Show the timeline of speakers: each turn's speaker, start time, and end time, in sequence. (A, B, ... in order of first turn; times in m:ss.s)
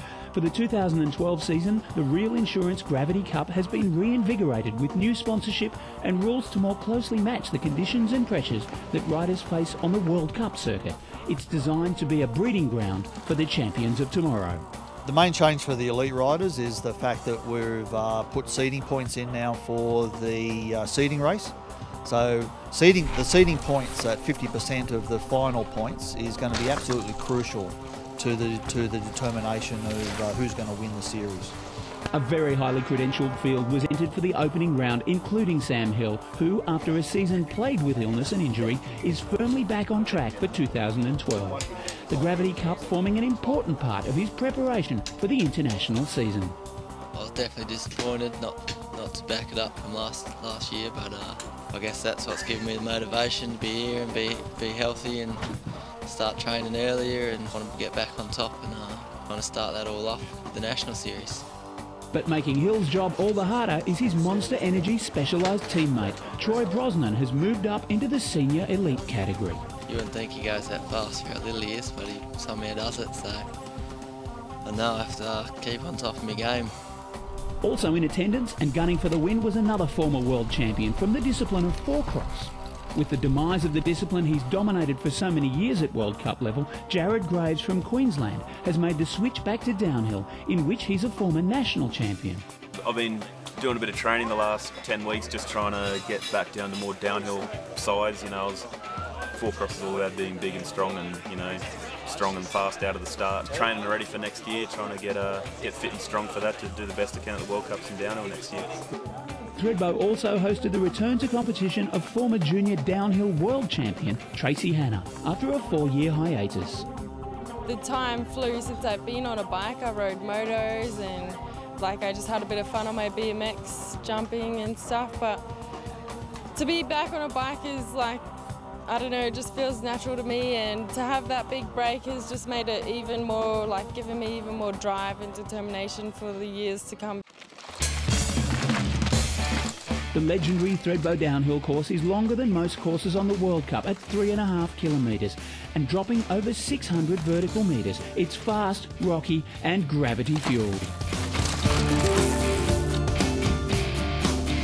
0:00.3-0:14.6 A
0:15.0-0:21.5 B
0:22.0-0:31.6 B
0:32.1-0:46.6 A
0:47.1-0:55.5 C
0:56.0-1:01.4 C
1:02.1-1:09.6 A
1:09.9-1:13.5 C
1:14.6-1:16.8 C
1:17.6-1:32.4 A
1:32.8-1:38.7 D
1:39.4-1:48.8 D
1:49.6-1:56.9 A
1:57.6-2:05.4 E
2:06.5-2:08.2 E
2:08.9-2:17.2 E
2:20.1-2:31.0 A